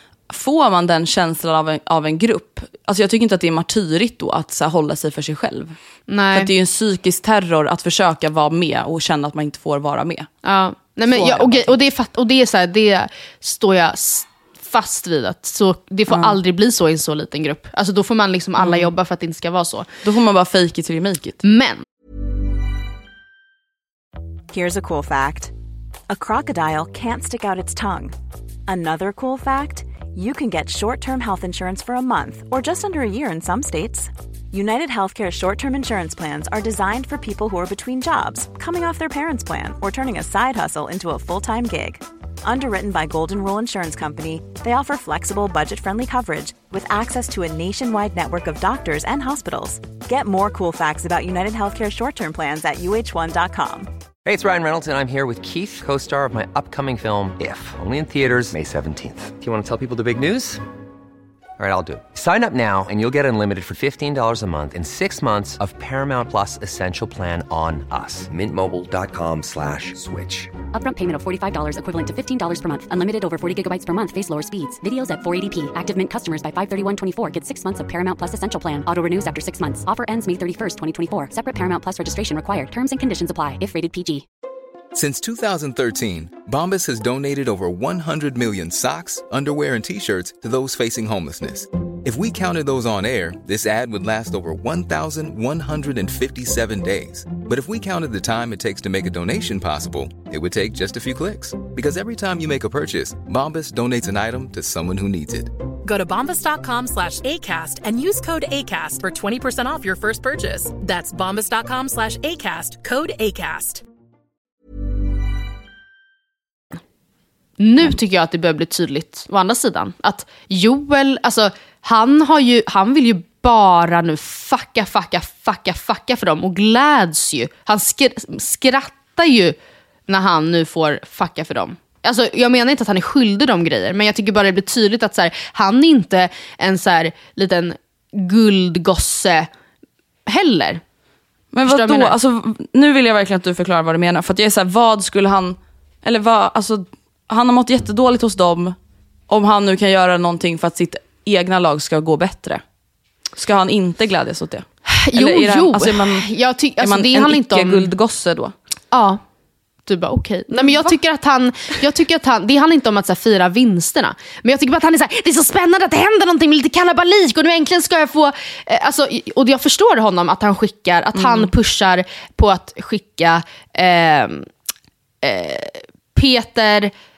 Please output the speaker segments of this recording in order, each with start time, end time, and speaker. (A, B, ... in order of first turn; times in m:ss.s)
0:00.3-0:05.8 A
0:06.1-0:06.5 B
0:06.3-0:10.3 A
0:10.4-0:19.9 B
0:11.1-0:11.8 A
0:16.1-0:16.4 A
0:18.6-0:18.9 A
0:20.0-0:21.4 A
0:21.4-0:21.8 B
0:24.5-0:25.5 C
0:26.1-0:28.2 C
0:28.7-0:53.9 C
0:54.2-1:00.6 D
1:01.6-1:10.5 D
1:10.7-1:24.2 E
1:24.9-1:45.5 F
1:45.8-1:53.8 G
1:57.6-2:09.6 B
2:10.1-2:19.5 B
2:20.3-2:20.8 B
2:21.5-2:28.8 A
2:21.7-2:22.2 B
2:29.3-2:32.6 A
2:33.4-2:38.5 A
2:34.9-2:37.9 B
2:38.9-2:39.2 B
2:39.9-2:54.5 B
2:40.6-2:40.9 A
2:51.1-2:51.5 A
2:55.2-2:56.9 B